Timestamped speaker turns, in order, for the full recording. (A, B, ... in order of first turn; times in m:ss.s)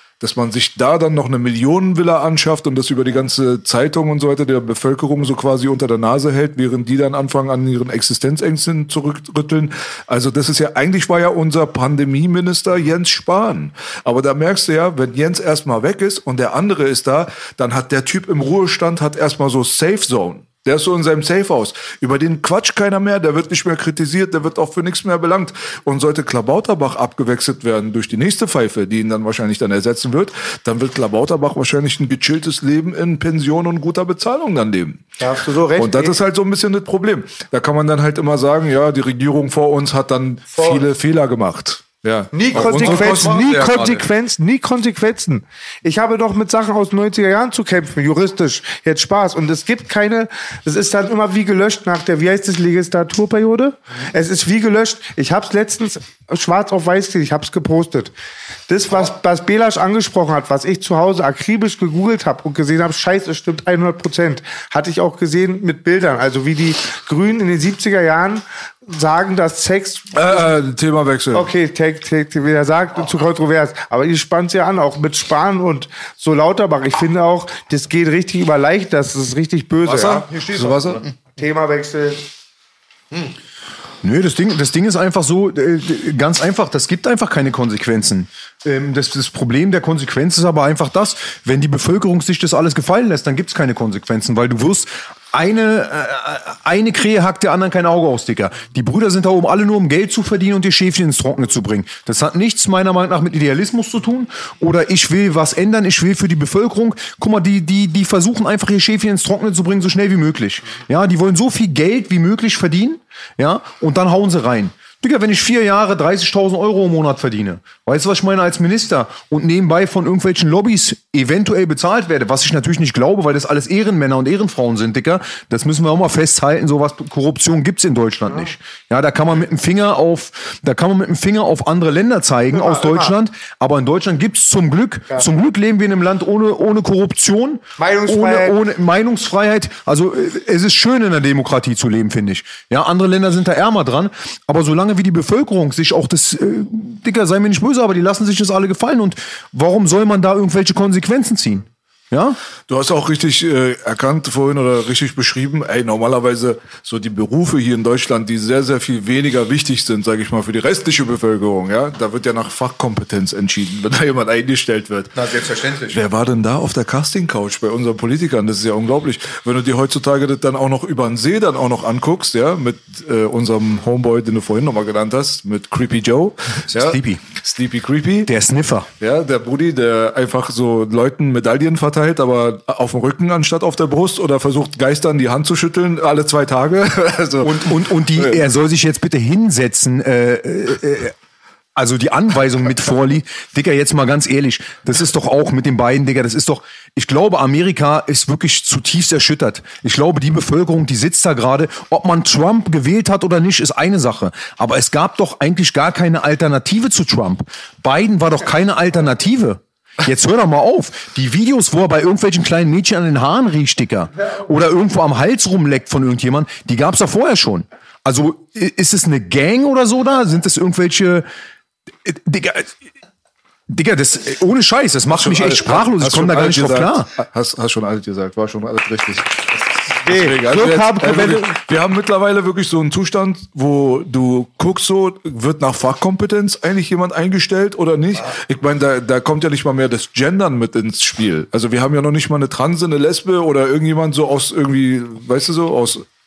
0:00.2-0:35.0 A
0:35.2-0:36.2 B
0:35.7-0:43.6 A
0:40.5-0:40.8 B
0:42.3-0:58.1 B
0:42.5-0:44.0 C
0:58.7-1:10.6 B
1:10.1-1:11.5 A
1:11.3-1:20.3 B
1:19.8-1:21.0 A
1:20.1-1:21.0 C
1:21.4-1:22.2 B
1:24.0-2:32.4 C
2:12.5-2:13.1 B
2:17.8-2:18.5 B
2:32.7-2:45.2 A
2:45.1-2:46.0 C
2:45.9-2:58.3 A
2:56.7-2:57.3 C
2:58.3-2:58.9 C
2:59.0-3:08.4 A
3:07.4-3:11.1 C
3:11.7-3:41.3 C
3:42.0-3:42.7 C
3:43.7-3:47.1 C
3:45.1-4:06.1 A
3:50.0-3:51.5 B